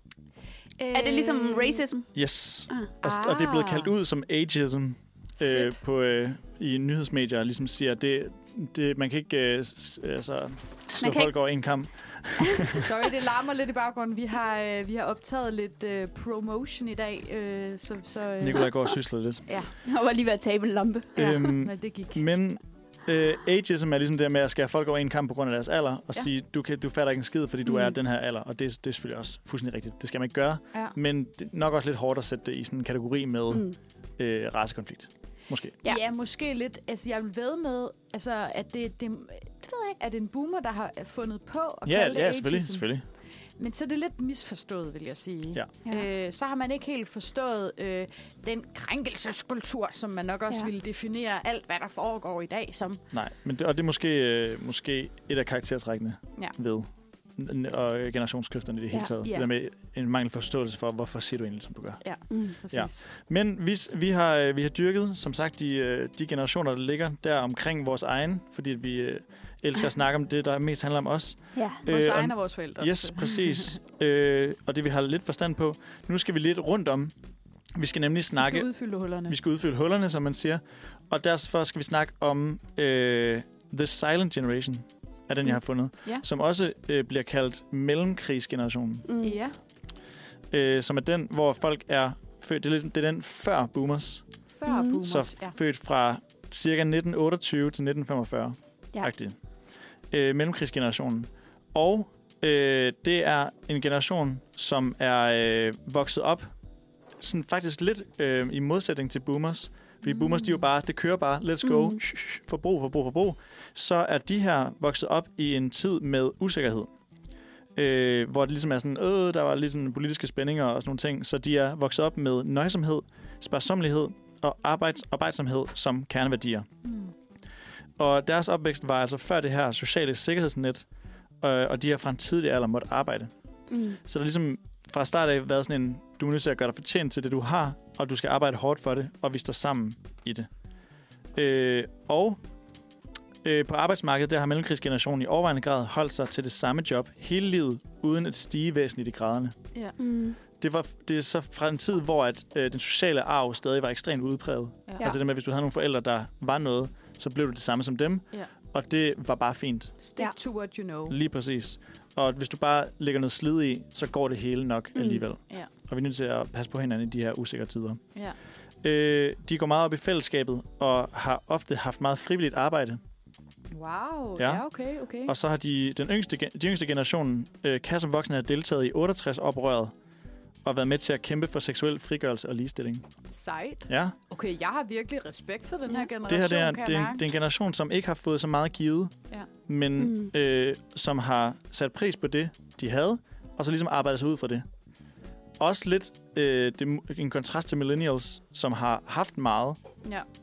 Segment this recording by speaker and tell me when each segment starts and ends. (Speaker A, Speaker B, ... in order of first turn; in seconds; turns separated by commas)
Speaker A: 0.8-1.8, Speaker B: 0.9-2.1, Speaker C: 2.1-12.9, Speaker A: 3.0-3.9, Speaker A: 5.4-5.8, Speaker B: 11.0-11.3, Speaker A: 12.8-18.7, Speaker C: 18.4-19.5, Speaker A: 19.5-19.7, Speaker B: 19.8-21.6, Speaker C: 21.2-33.7, Speaker A: 21.6-22.2, Speaker C: 34.2-35.8, Speaker A: 35.8-42.9, Speaker C: 41.9-43.0, Speaker A: 43.6-53.0, Speaker C: 53.1-62.0, Speaker A: 59.2-59.5, Speaker A: 62.0-63.1, Speaker B: 62.3-62.5, Speaker C: 62.7-77.1, Speaker B: 71.5-71.8, Speaker A: 71.8-73.8, Speaker C: 77.7-78.7, Speaker A: 78.4-79.4, Speaker C: 79.2-89.0, Speaker B: 89.0-89.4, Speaker A: 89.2-89.5, Speaker C: 90.5-94.2, Speaker A: 94.5-95.5, Speaker B: 94.7-95.0, Speaker C: 95.0-99.3, Speaker C: 100.1-106.5, Speaker C: 107.2-116.9, Speaker A: 110.2-110.5, Speaker B: 111.6-112.0, Speaker C: 117.8-126.7, Speaker A: 126.8-127.1, Speaker C: 128.0-130.8, Speaker C: 131.4-133.3, Speaker B: 133.7-134.0, Speaker C: 134.0-140.5, Speaker C: 141.3-142.4, Speaker C: 143.4-149.5, Speaker B: 150.0-150.4, Speaker C: 150.6-159.9, Speaker A: 160.0-161.2, Speaker C: 161.1-168.0, Speaker B: 164.9-165.2, Speaker C: 168.8-173.0, Speaker A: 173.7-175.3, Speaker C: 174.4-174.6, Speaker C: 175.2-179.9, Speaker C: 180.6-183.0, Speaker A: 183.3-187.2, Speaker C: 183.9-184.2, Speaker C: 186.2-189.1, Speaker C: 189.7-194.6, Speaker B: 190.0-190.3, Speaker C: 195.6-199.8